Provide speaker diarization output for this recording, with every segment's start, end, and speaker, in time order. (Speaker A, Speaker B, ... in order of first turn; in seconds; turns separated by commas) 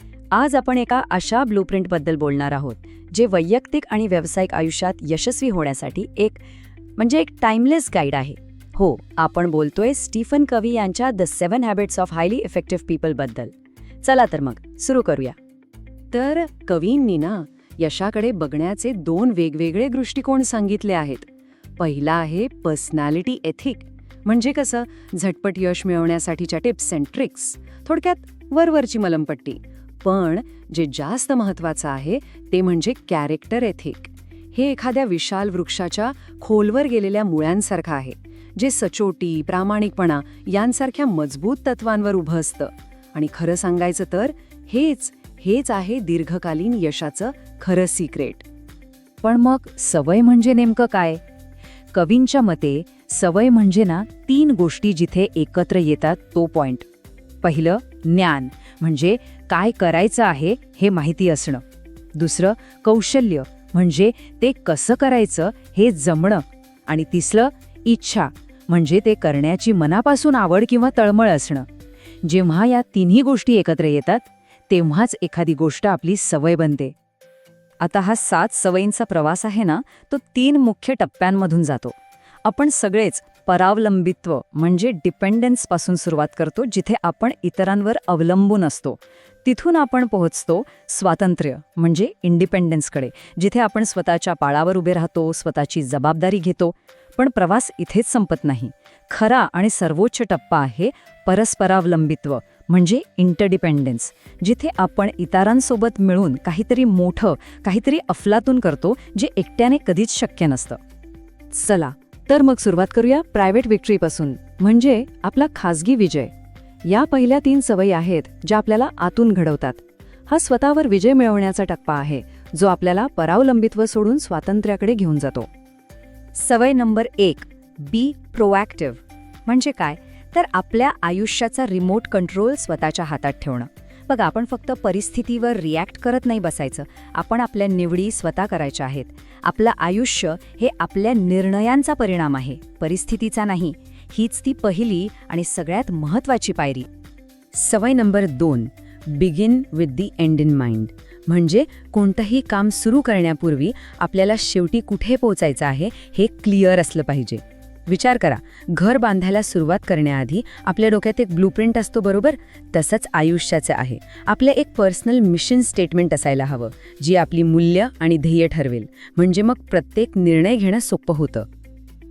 Speaker A: 0.3-6.4, Speaker A: 7.0-15.4, Speaker A: 16.1-48.4, Speaker A: 49.2-51.2, Speaker A: 51.9-56.8, Speaker A: 57.4-61.6, Speaker A: 62.1-71.7, Speaker A: 72.2-76.9, Speaker A: 77.8-110.8, Speaker A: 111.5-116.3, Speaker A: 116.8-125.5, Speaker A: 126.3-146.9, Speaker A: 147.5-171.5